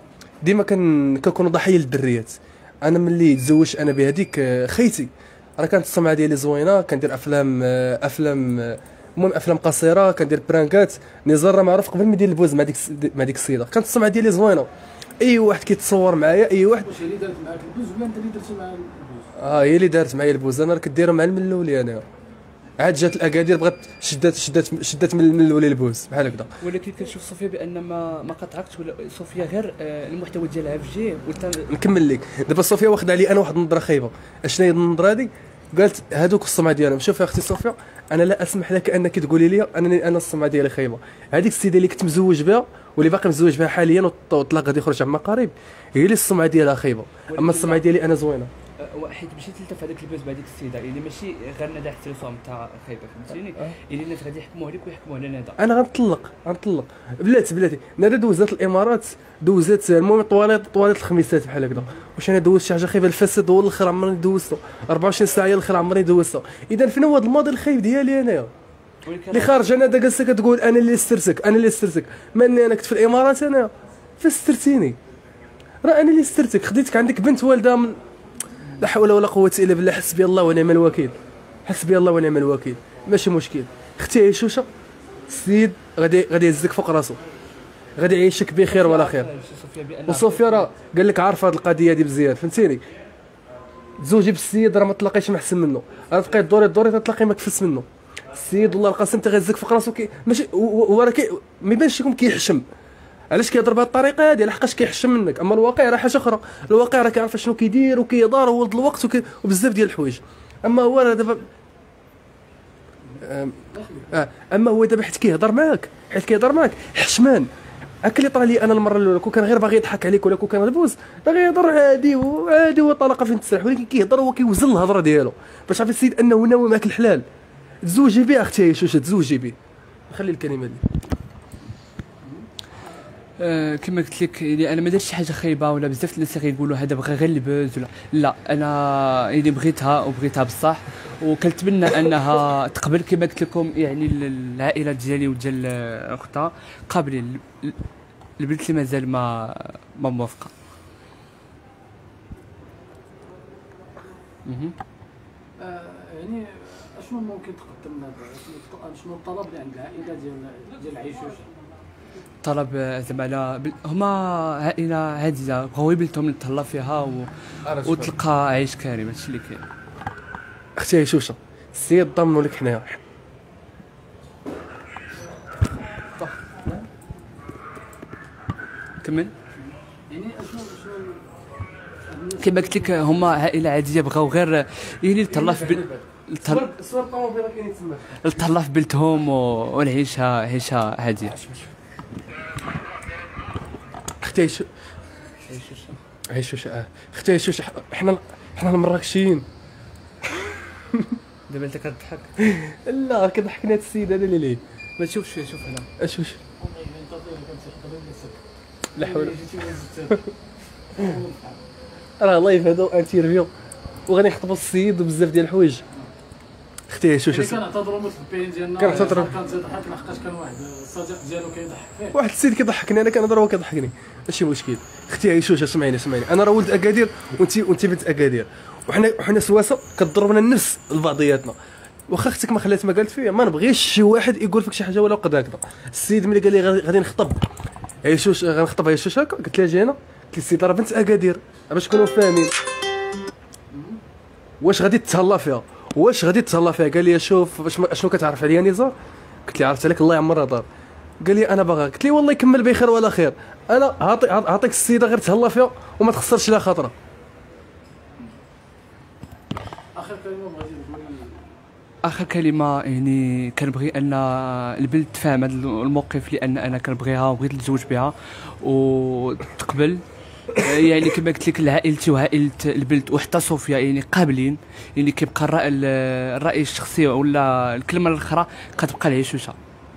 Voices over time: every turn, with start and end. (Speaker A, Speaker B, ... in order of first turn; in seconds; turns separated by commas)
Speaker A: 0.4-14.7, Speaker A: 15.2-16.9, Speaker B: 16.8-19.3, Speaker A: 19.4-22.0, Speaker A: 22.8-26.5, Speaker C: 26.6-31.7, Speaker A: 31.7-48.5, Speaker C: 47.3-47.9, Speaker C: 48.8-55.5, Speaker A: 55.6-68.5, Speaker C: 69.0-69.6, Speaker A: 69.3-75.0, Speaker A: 75.8-78.0, Speaker A: 78.8-81.1, Speaker A: 81.7-84.7, Speaker A: 85.3-87.2, Speaker A: 88.0-89.3, Speaker C: 88.7-90.7, Speaker A: 90.1-92.8, Speaker A: 94.0-102.6, Speaker A: 103.3-111.5, Speaker A: 113.2-113.6, Speaker B: 113.7-114.1, Speaker A: 114.1-117.5, Speaker A: 118.0-127.2, Speaker A: 127.8-129.6, Speaker A: 130.1-130.8, Speaker C: 133.4-147.8, Speaker C: 148.4-150.5, Speaker C: 154.4-154.7, Speaker B: 155.6-161.5, Speaker C: 162.4-167.3, Speaker A: 167.6-168.1, Speaker C: 167.8-169.6, Speaker A: 170.8-173.0, Speaker A: 176.2-176.8, Speaker C: 179.0-179.3, Speaker B: 180.1-181.2, Speaker B: 182.1-183.2, Speaker C: 182.4-186.6, Speaker A: 185.3-188.3, Speaker C: 188.2-191.3, Speaker A: 194.2-194.7, Speaker C: 195.5-196.0, Speaker A: 196.3-199.4, Speaker C: 201.5-202.3, Speaker A: 202.4-204.6, Speaker C: 205.0-205.9, Speaker A: 206.0-206.4, Speaker B: 206.6-208.4, Speaker A: 208.9-209.5, Speaker B: 209.0-210.3, Speaker B: 210.9-211.6, Speaker A: 212.2-213.5, Speaker A: 214.1-215.8, Speaker A: 216.9-217.6, Speaker B: 217.3-222.2, Speaker A: 218.8-219.4, Speaker A: 222.1-231.6, Speaker A: 232.1-237.4, Speaker A: 238.0-242.5, Speaker B: 243.7-244.0, Speaker A: 244.6-248.9, Speaker A: 249.4-250.7, Speaker A: 251.2-256.9, Speaker B: 259.9-261.5, Speaker C: 262.0-270.0, Speaker C: 270.5-279.6